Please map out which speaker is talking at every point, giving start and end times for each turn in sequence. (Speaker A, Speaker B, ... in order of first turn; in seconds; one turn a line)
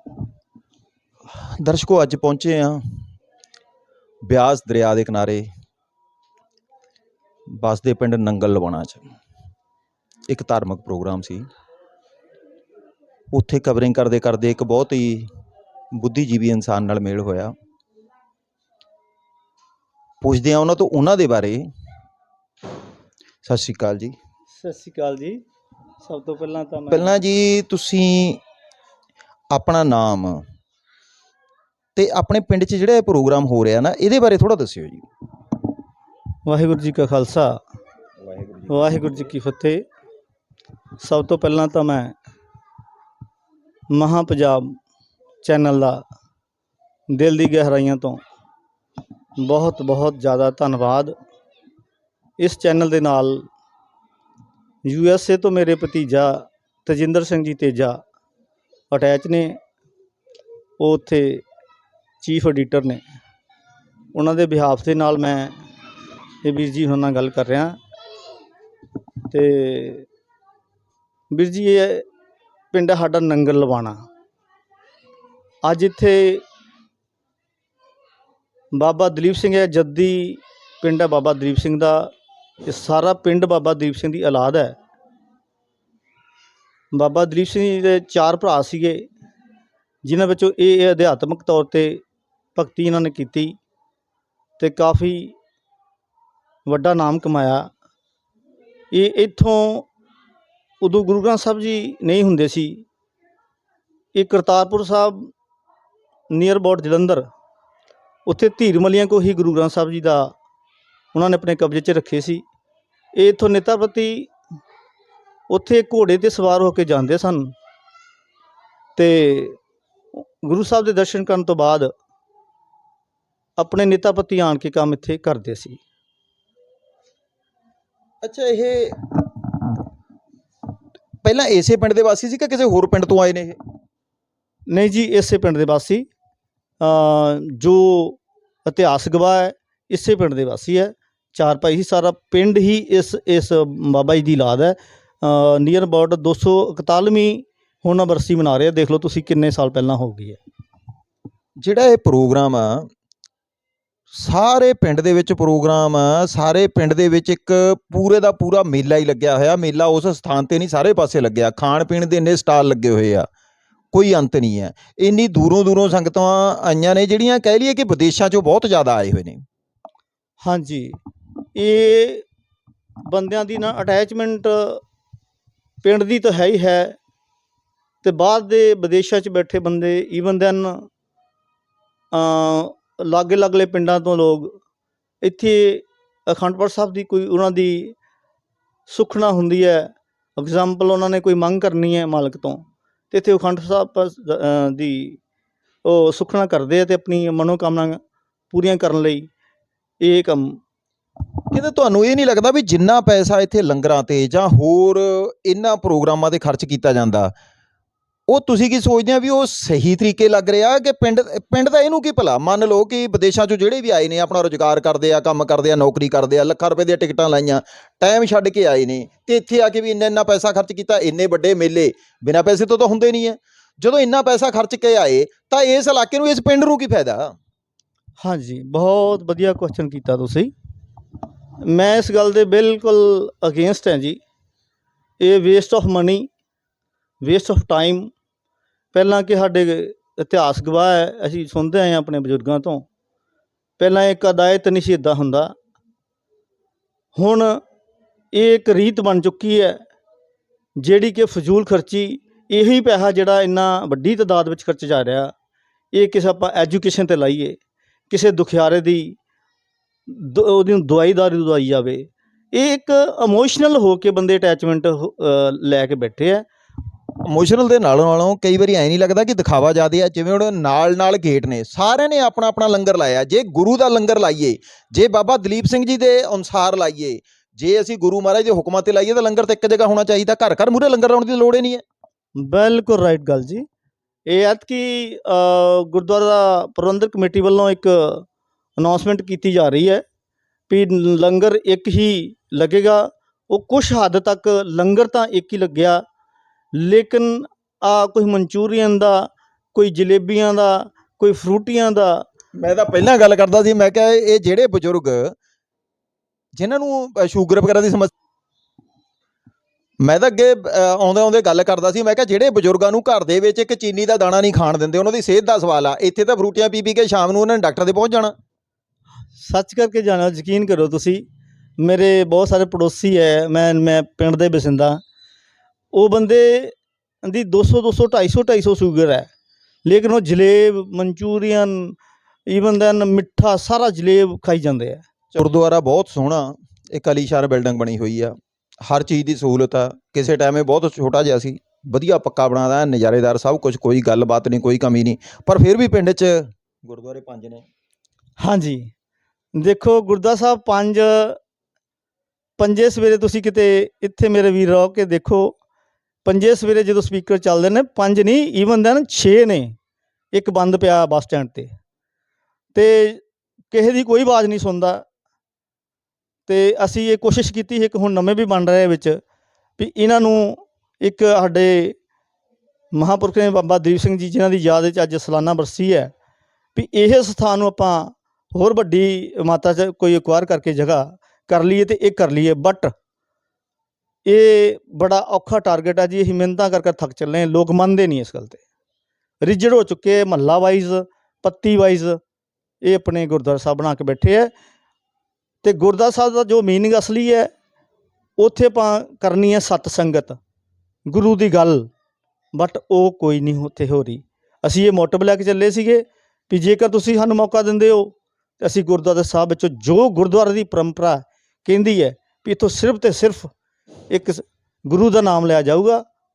Speaker A: 1.4-2.8
Speaker A: 4.3-5.5
Speaker A: 7.6-9.0
Speaker A: 10.3-11.5
Speaker A: 13.3-15.3
Speaker A: 15.9-17.5
Speaker A: 20.2-21.7
Speaker A: 23.4-24.1
Speaker B: 24.6-25.4
Speaker B: 26.0-27.1
Speaker A: 26.9-28.4
Speaker A: 29.5-30.4
Speaker A: 32.0-35.0
Speaker B: 36.5-37.6
Speaker A: 38.2-39.2
Speaker B: 38.7-39.8
Speaker B: 41.0-42.1
Speaker B: 43.9-44.8
Speaker B: 45.4-46.0
Speaker B: 47.1-48.2
Speaker B: 49.4-51.1
Speaker B: 52.4-53.5
Speaker B: 54.9-58.0
Speaker B: 58.9-59.6
Speaker B: 60.8-61.4
Speaker B: 62.2-63.0
Speaker B: 64.1-65.5
Speaker B: 66.4-67.8
Speaker B: 69.3-70.1
Speaker B: 71.3-72.1
Speaker B: 72.7-74.0
Speaker B: 75.6-76.4
Speaker B: 78.7-82.1
Speaker B: 82.7-84.8
Speaker B: 86.9-89.1
Speaker B: 90.0-92.0
Speaker B: 92.5-93.6
Speaker B: 94.6-95.3
Speaker B: 96.7-97.7
Speaker B: 98.9-99.9
Speaker B: 100.8-102.9
Speaker B: 104.2-105.3
Speaker B: 106.3-107.3
Speaker B: 108.3-110.3
Speaker B: 111.1-112.4
Speaker B: 113.2-114.3
Speaker B: 115.5-117.5
Speaker B: 119.0-119.6
Speaker B: 120.4-121.9
Speaker B: 123.6-125.8
Speaker A: 128.2-129.1
Speaker A: 131.2-133.6
Speaker B: 134.7-136.1
Speaker B: 136.8-150.4
Speaker A: 151.6-152.9
Speaker A: 154.2-163.3
Speaker A: 163.9-169.4
Speaker B: 170.4-171.0
Speaker B: 171.6-172.2
Speaker B: 173.1-174.8
Speaker B: 175.8-177.0
Speaker B: 178.0-180.9
Speaker B: 182.1-184.6
Speaker B: 185.2-187.9
Speaker B: 188.9-195.2
Speaker B: 195.8-198.0
Speaker B: 198.5-199.3
Speaker B: 200.0-200.6
Speaker A: 201.5-207.3
Speaker A: 208.3-227.4
Speaker B: 228.2-230.5
Speaker B: 231.6-234.2
Speaker B: 235.2-236.3
Speaker B: 237.2-238.1
Speaker B: 238.9-242.9
Speaker B: 243.8-245.5
Speaker B: 247.2-247.6
Speaker B: 248.3-249.8
Speaker B: 250.8-255.3
Speaker B: 255.9-257.6
Speaker B: 258.1-259.2
Speaker B: 260.1-266.5
Speaker A: 267.3-281.8
Speaker B: 282.4-283.6
Speaker B: 284.3-288.3
Speaker B: 288.8-290.0
Speaker B: 290.7-296.0
Speaker B: 296.7-302.2
Speaker A: 302.6-305.4
Speaker A: 306.6-308.1
Speaker A: 310.0-318.3
Speaker B: 319.4-321.2
Speaker B: 321.8-325.0
Speaker B: 325.9-329.3
Speaker B: 329.9-332.0
Speaker B: 332.5-335.0
Speaker A: 335.4-347.6
Speaker B: 348.4-348.9
Speaker B: 349.6-351.4
Speaker B: 352.6-355.6
Speaker B: 356.2-359.8
Speaker B: 360.3-361.7
Speaker B: 362.7-365.1
Speaker B: 366.5-369.2
Speaker B: 369.8-372.0
Speaker B: 372.9-376.1
Speaker B: 376.8-382.9
Speaker B: 384.2-388.6
Speaker B: 389.4-392.2
Speaker B: 392.8-394.5
Speaker B: 395.6-397.5
Speaker B: 398.4-400.4
Speaker B: 401.1-401.9
Speaker B: 402.5-413.5
Speaker B: 414.1-416.1